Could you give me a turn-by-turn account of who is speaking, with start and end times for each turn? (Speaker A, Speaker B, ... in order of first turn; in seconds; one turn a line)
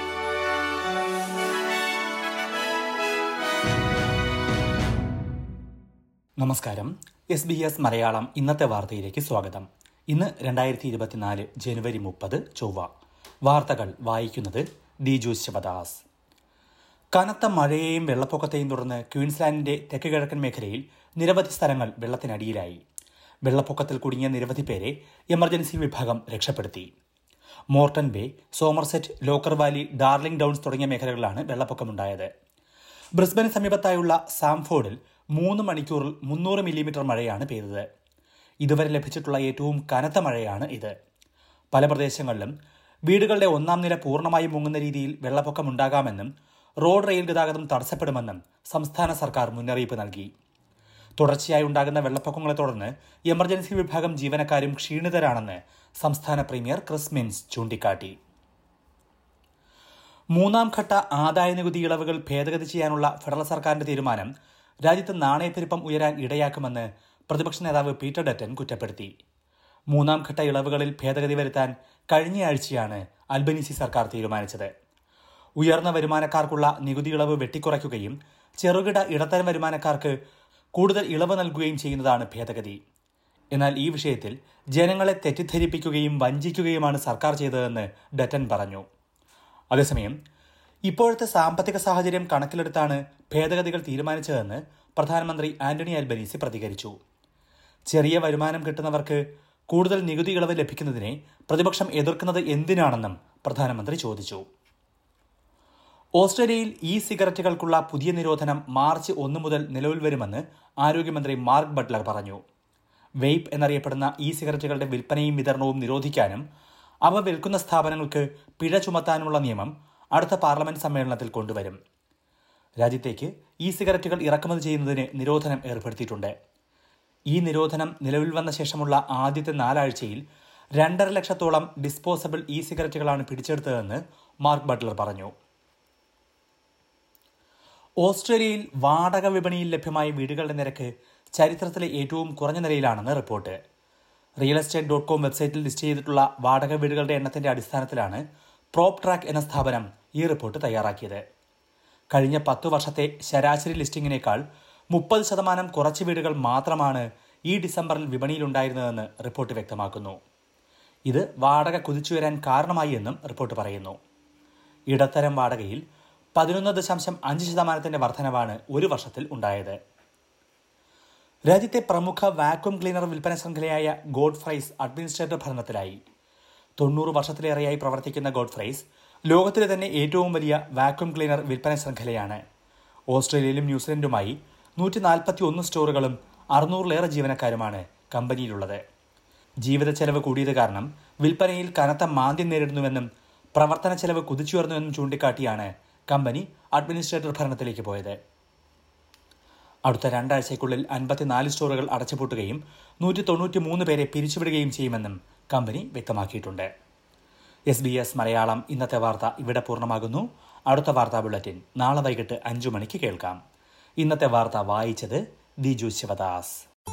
Speaker A: 6.4-12.9
Speaker A: 13.4-16.0
Speaker A: 17.1-22.8
Speaker A: 23.4-26.9
Speaker A: 27.7-32.3
Speaker A: 33.1-37.8
Speaker A: 38.6-40.9
Speaker A: 41.7-42.5
Speaker A: 43.1-46.3
Speaker A: 46.8-50.3
Speaker A: 51.2-58.1
Speaker A: 60.3-64.3
Speaker A: 64.8-69.1
Speaker A: 69.9-74.7
Speaker A: 75.6-80.1
Speaker A: 80.7-82.8
Speaker A: 83.5-88.8
Speaker A: 89.7-90.1
Speaker A: 90.9-96.9
Speaker A: 97.9-104.4
Speaker A: 106.2-112.4
Speaker A: 113.2-116.4
Speaker A: 117.0-121.8
Speaker A: 122.8-126.3
Speaker A: 127.3-130.2
Speaker A: 130.8-135.3
Speaker A: 138.0-143.6
Speaker A: 144.4-148.2
Speaker A: 148.7-151.2
Speaker A: 152.1-154.4
Speaker A: 154.9-160.2
Speaker A: 161.1-163.9
Speaker A: 164.9-165.8
Speaker A: 166.3-169.8
Speaker A: 171.5-176.0
Speaker A: 176.8-182.4
Speaker A: 183.1-188.8
Speaker A: 189.6-198.2
Speaker A: 199.9-206.7
Speaker A: 207.7-213.4
Speaker A: 214.0-216.6